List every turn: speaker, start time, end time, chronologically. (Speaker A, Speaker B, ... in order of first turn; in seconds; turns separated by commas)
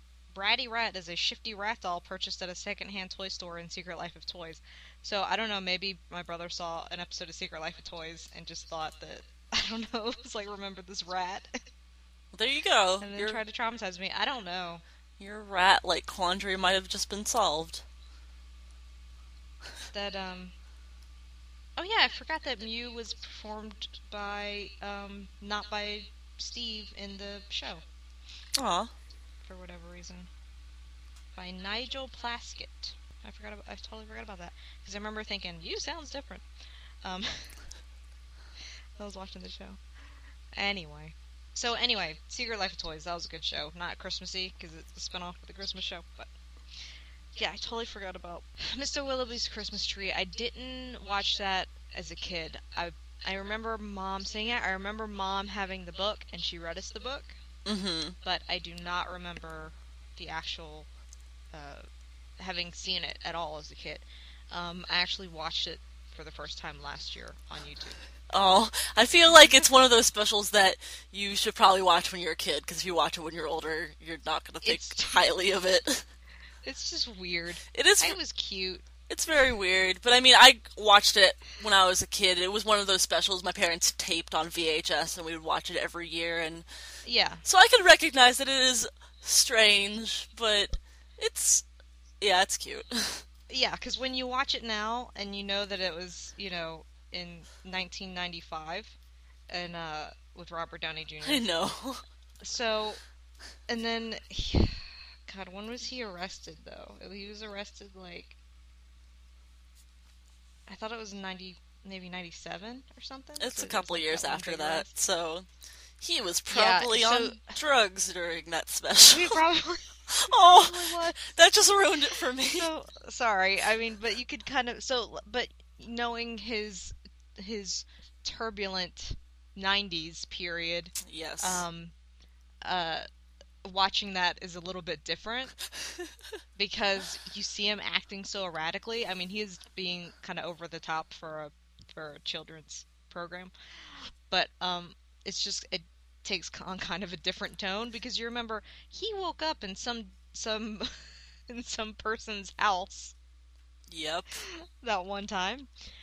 Speaker A: 0.3-11.6, Speaker B: 12.3-13.4, Speaker A: 13.0-14.8, Speaker B: 15.2-17.8, Speaker A: 19.9-20.5, Speaker A: 21.8-27.9, Speaker B: 28.6-28.9, Speaker A: 29.4-30.3, Speaker A: 31.4-36.5, Speaker A: 37.0-37.6, Speaker A: 39.0-39.8, Speaker A: 40.5-46.3, Speaker A: 47.4-57.4, Speaker B: 57.7-58.2, Speaker A: 58.2-60.9, Speaker A: 61.5-61.9, Speaker A: 62.4-68.0, Speaker B: 68.3-76.1, Speaker A: 74.6-75.2, Speaker A: 76.6-78.9, Speaker B: 77.7-78.2, Speaker B: 79.1-86.7, Speaker A: 87.0-87.4, Speaker B: 87.4-91.7, Speaker B: 92.2-93.2, Speaker A: 93.5-99.0, Speaker A: 99.5-101.5, Speaker B: 101.2-102.0, Speaker A: 102.4-103.0, Speaker A: 103.7-108.4, Speaker A: 110.7-114.9, Speaker B: 113.4-115.5, Speaker B: 116.0-119.4, Speaker A: 116.5-117.6, Speaker A: 119.1-121.2, Speaker B: 120.1-122.7, Speaker A: 122.4-131.9, Speaker B: 131.0-131.7, Speaker A: 132.6-133.1, Speaker A: 133.6-135.6, Speaker A: 136.6-153.2, Speaker B: 153.9-154.4, Speaker A: 154.3-155.7